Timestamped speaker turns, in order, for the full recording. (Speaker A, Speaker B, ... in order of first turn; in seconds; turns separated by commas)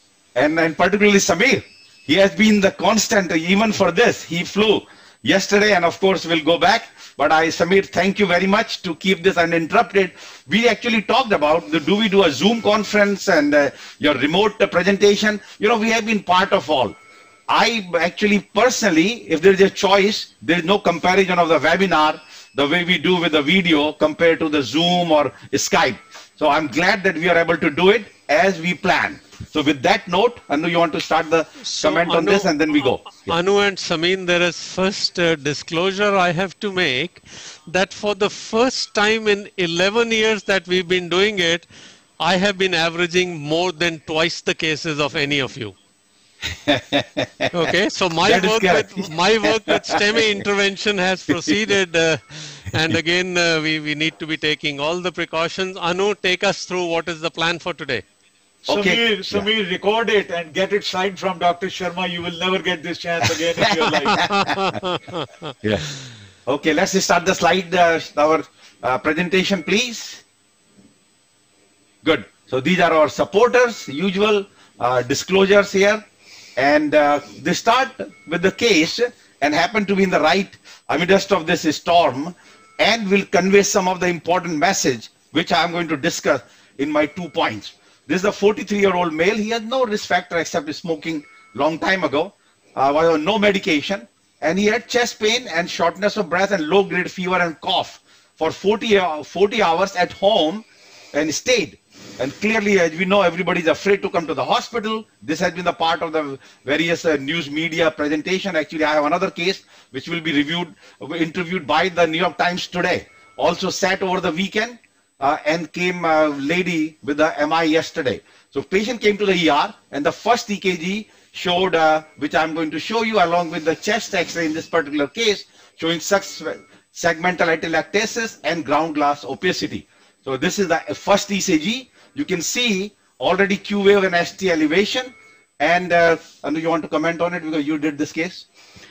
Speaker A: 0.4-17.0, Speaker A: 17.5-33.3, Speaker B: 31.6-41.7, Speaker B: 42.2-45.8, Speaker A: 46.4-47.5, Speaker B: 47.5-58.0, Speaker A: 48.2-50.0, Speaker C: 58.6-64.3, Speaker A: 58.7-59.5, Speaker A: 63.2-64.8, Speaker B: 64.1-65.5, Speaker A: 65.6-65.9, Speaker A: 66.5-70.2, Speaker A: 72.0-76.0, Speaker A: 76.6-138.5